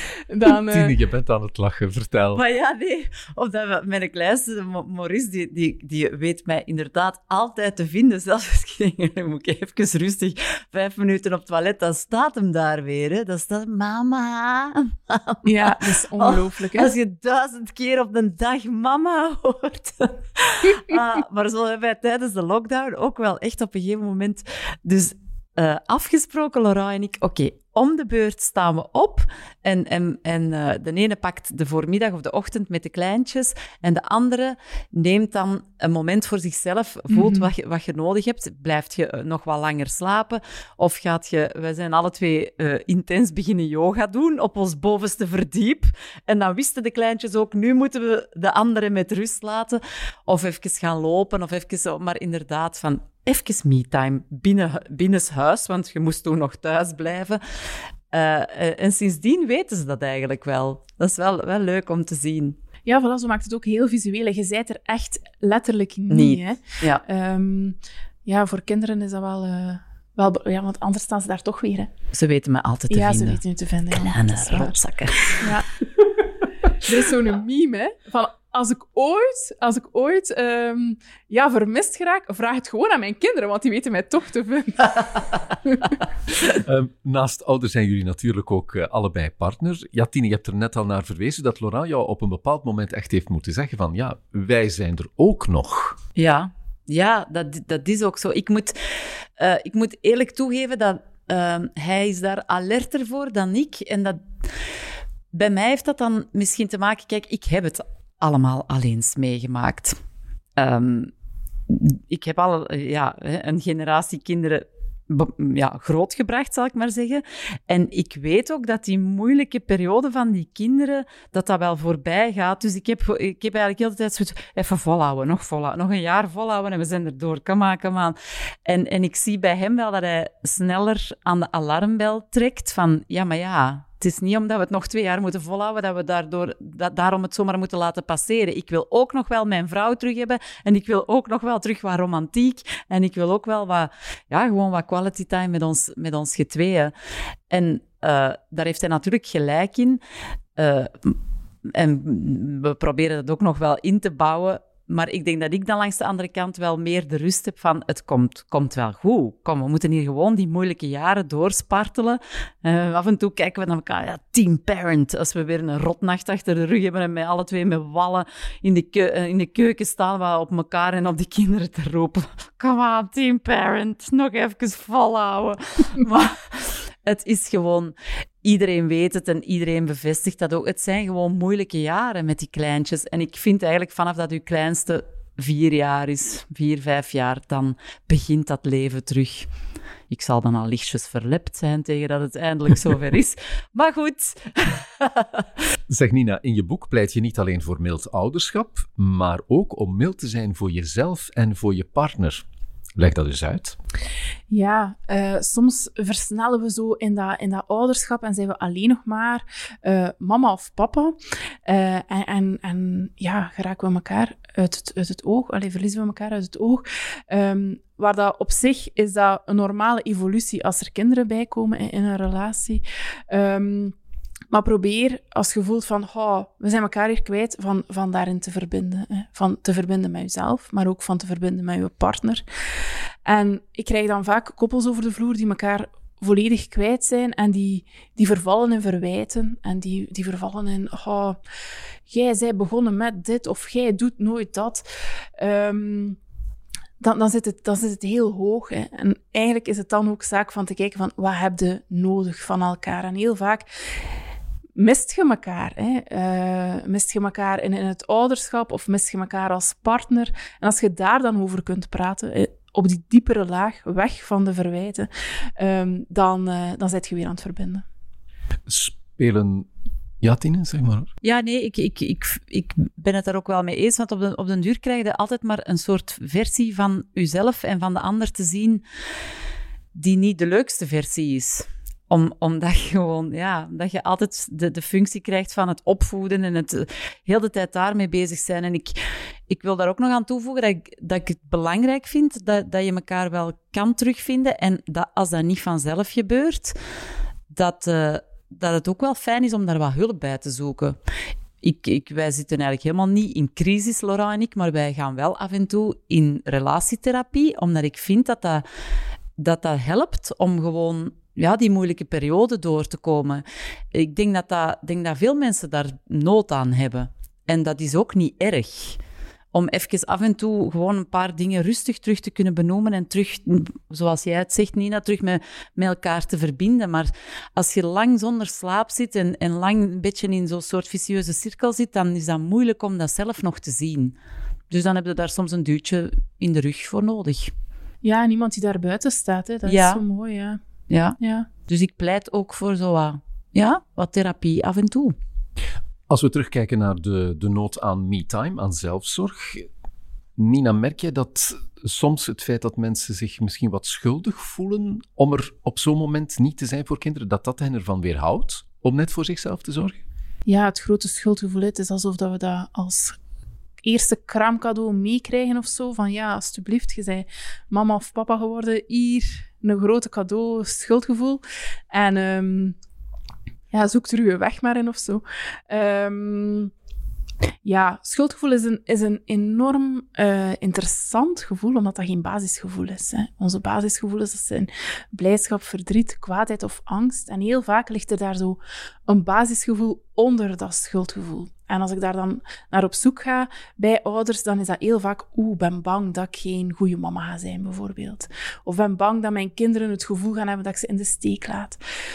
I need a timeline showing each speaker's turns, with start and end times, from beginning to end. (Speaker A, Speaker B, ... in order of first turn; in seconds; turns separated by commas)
Speaker A: 0.3-0.9, Speaker B: 0.5-2.4, Speaker C: 2.4-57.4, Speaker A: 15.4-16.9, Speaker A: 37.1-37.5, Speaker C: 58.1-62.6, Speaker A: 62.9-71.9, Speaker C: 66.1-67.0, Speaker C: 72.1-75.5, Speaker A: 72.9-74.8, Speaker A: 75.4-75.7, Speaker A: 76.8-85.4, Speaker B: 86.5-96.0, Speaker C: 96.2-98.8, Speaker C: 99.4-104.2, Speaker C: 105.3-110.0, Speaker C: 110.6-111.1, Speaker C: 111.7-146.9, Speaker C: 147.5-150.0, Speaker C: 150.6-151.2, Speaker C: 151.7-189.5, Speaker C: 190.1-195.5, Speaker B: 195.9-202.4, Speaker B: 203.0-203.8, Speaker A: 204.5-211.1, Speaker A: 211.7-223.9, Speaker A: 224.5-232.4, Speaker A: 233.2-241.4, Speaker A: 242.1-244.9, Speaker A: 245.4-246.2, Speaker A: 247.0-253.7, Speaker A: 254.8-267.8, Speaker B: 268.7-269.7, Speaker B: 270.2-271.1, Speaker C: 271.2-278.8, Speaker C: 279.9-289.0, Speaker C: 289.5-296.8, Speaker C: 297.5-301.0, Speaker C: 301.6-308.6, Speaker C: 309.4-319.0, Speaker C: 319.5-334.2, Speaker C: 334.7-337.5, Speaker A: 338.0-340.6, Speaker C: 339.6-340.0, Speaker C: 340.9-345.1, Speaker A: 341.2-341.5, Speaker B: 346.1-349.7, Speaker B: 350.4-360.0, Speaker A: 360.5-363.2, Speaker A: 363.8-372.8, Speaker A: 373.7-376.7, Speaker A: 377.6-401.8